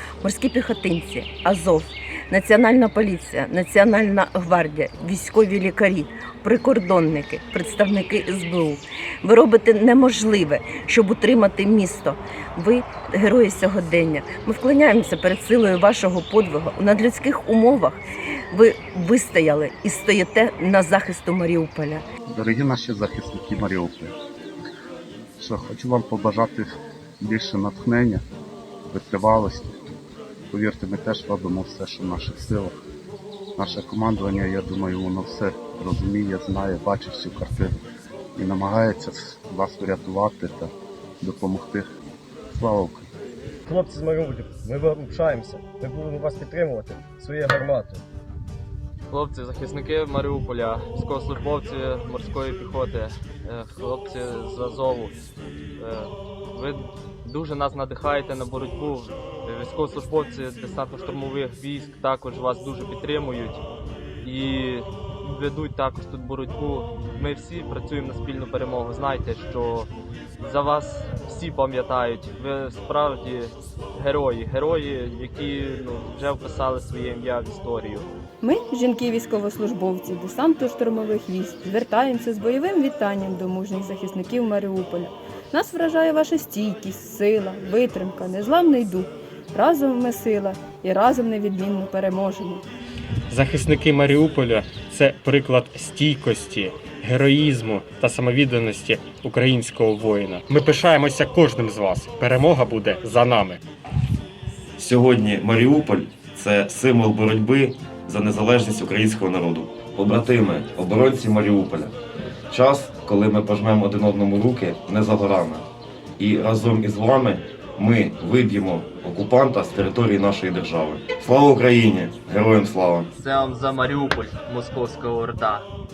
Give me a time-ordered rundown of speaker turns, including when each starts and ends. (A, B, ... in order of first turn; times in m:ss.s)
0:00.2-0:18.0 A
0:18.5-0:22.0 A
0:22.3-0:24.1 B
0:25.4-0:26.7 B
0:27.2-0:28.2 B
0:28.9-0:29.7 B
0:30.5-0:32.7 B
0:33.6-0:37.8 B
0:38.4-0:40.7 B
0:41.2-0:41.8 B
0:42.5-0:43.1 B
0:43.7-0:48.0 C
0:49.1-0:55.1 D
0:55.8-1:03.6 D
1:04.2-1:18.1 D
1:18.4-1:32.6 E
1:33.3-1:43.6 F
1:44.8-1:51.9 G
1:52.5-1:55.7 G
1:56.2-2:03.1 G
2:03.4-2:03.9 D